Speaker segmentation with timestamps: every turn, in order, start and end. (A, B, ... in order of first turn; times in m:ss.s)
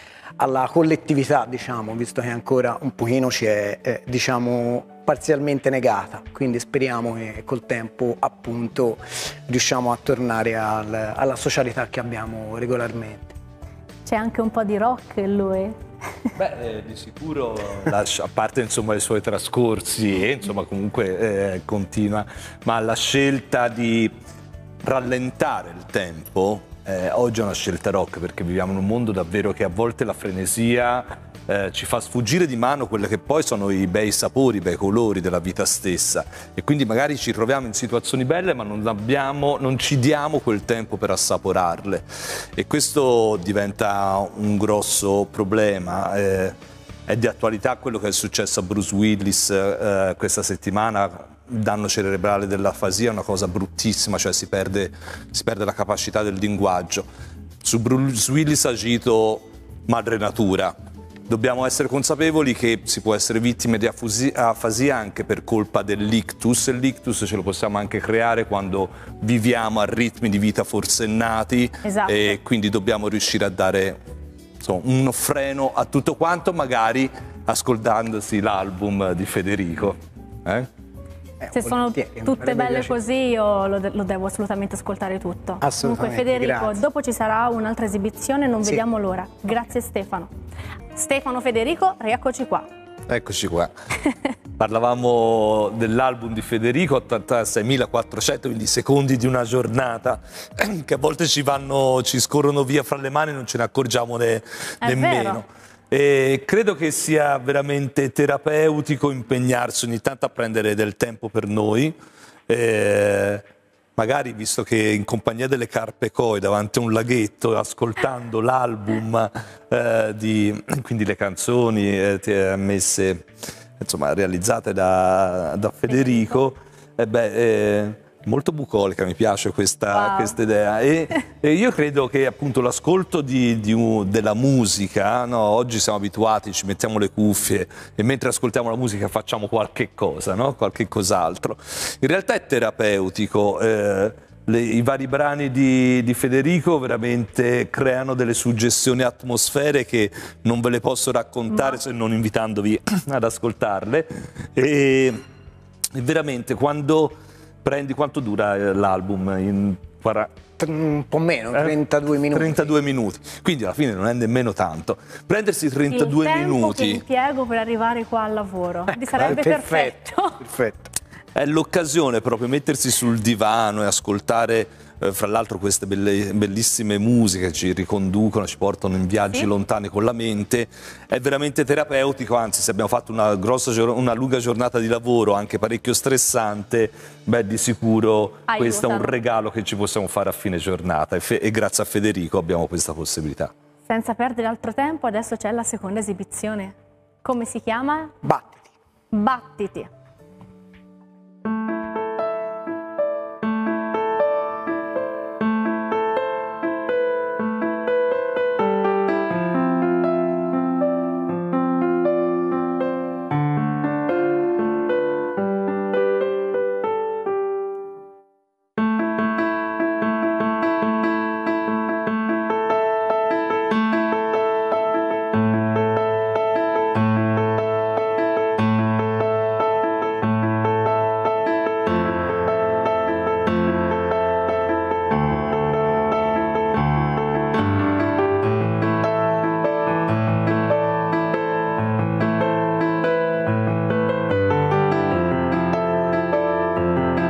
0:00.4-0:13.3 A
0:14.0-0:15.8 B
0:16.4-0:24.1 C
0:24.8-0:46.5 C
0:47.1-0:57.0 C
0:57.6-1:00.7 C
1:01.3-1:14.0 C
1:11.8-1:12.4 B
1:14.6-1:20.7 C
1:21.4-1:23.0 A
1:21.5-1:30.3 B
1:25.6-1:26.8 A
1:30.9-1:32.7 B
1:33.1-1:33.7 C
1:34.6-1:51.9 C
1:44.8-1:45.4 B
1:52.5-1:53.4 C
1:54.0-2:03.2 C
2:03.8-2:35.2 C
2:05.9-2:06.3 B
2:09.9-2:10.4 B
2:35.9-2:40.3 C
2:40.6-2:42.7 A
2:42.3-2:47.0 C
2:45.9-2:50.4 B
2:49.0-2:50.9 A
2:49.1-2:49.4 C
2:51.3-3:13.5 C
3:08.5-3:09.2 B
3:13.9-3:18.1 B
3:18.2-3:18.7 A
3:19.1-3:19.9 B